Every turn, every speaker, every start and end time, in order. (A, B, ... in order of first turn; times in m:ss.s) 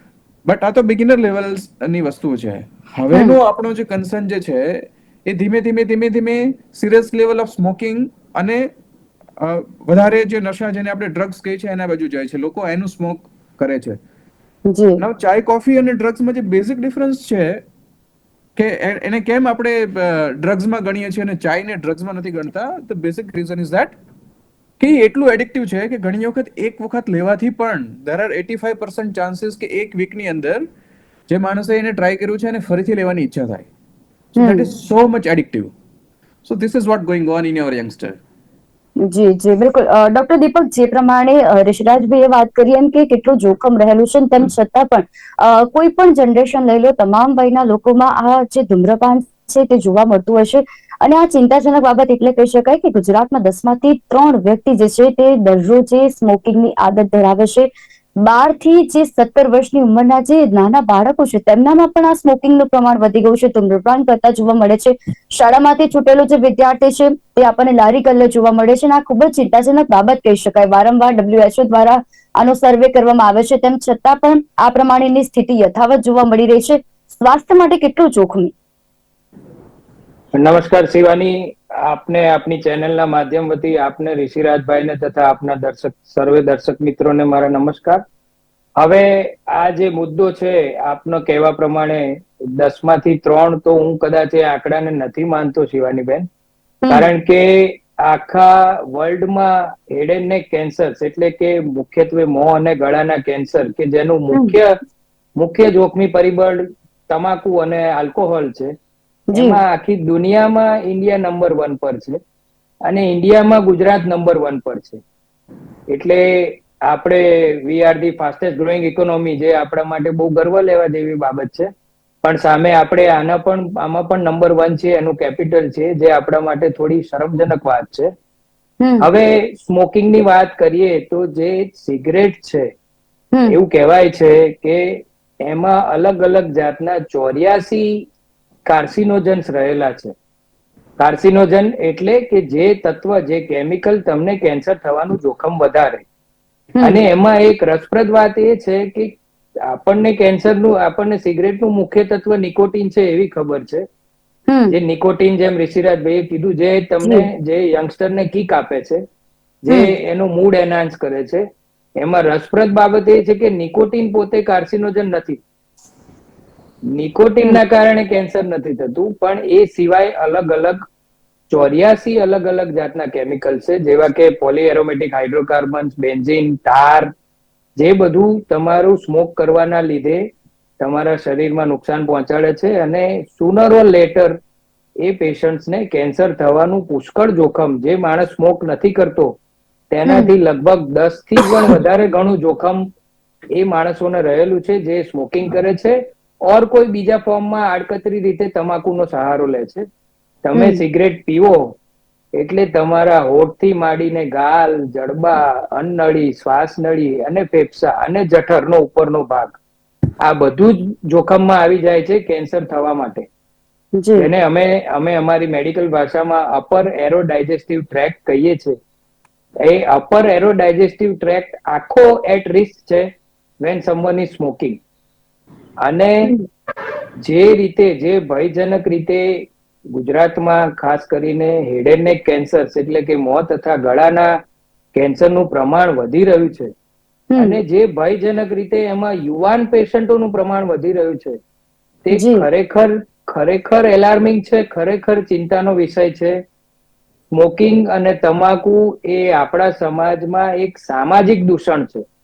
0:00.4-0:08.7 A
0:09.4-0:14.0 A
0:14.7-0:15.0 B
0:15.0-0:17.6 A
0:18.6-0:23.9 A
0:24.8-0:30.6 A
0:31.3-0:33.7 A
0:34.3-0:35.7 A
0:34.4-0:34.7 B
0:36.4-0:38.2 A
0:39.0-0:57.7 B
0:58.2-1:18.5 B
1:20.4-1:28.0 C
1:28.8-1:36.3 C
1:36.9-1:44.7 C
1:45.4-1:48.7 C
1:49.3-1:49.6 B
1:49.3-1:52.2 C
1:52.8-1:55.0 C
1:55.9-2:01.7 C
2:02.2-2:08.1 C
2:09.0-2:12.7 C
2:13.5-2:17.9 C
2:18.7-2:20.1 C
2:21.0-2:26.0 C
2:26.8-2:29.1 C
2:29.6-2:33.8 C
2:34.7-2:39.0 C
2:39.6-2:41.4 C
2:42.0-2:45.4 C
2:46.9-2:50.8 C
2:51.5-2:57.1 C
2:57.8-3:00.2 C
3:00.8-3:04.4 C
3:05.0-3:09.4 C
3:09.9-3:12.8 C
3:10.1-3:10.3 B
3:13.6-3:16.0 C
3:16.5-3:19.8 C
3:20.4-3:21.7 C
3:20.6-3:20.8 B
3:22.4-3:29.6 C
3:30.2-3:33.2 C
3:34.0-3:34.3 B
3:34.2-3:38.8 C
3:39.6-3:44.8 C
3:45.8-3:46.3 C
3:47.2-3:54.4 C
3:54.9-3:56.7 C
3:57.3-3:57.6 B
3:57.4-4:01.4 C
4:02.0-4:06.4 C
4:02.1-4:02.4 B
4:07.3-4:12.0 C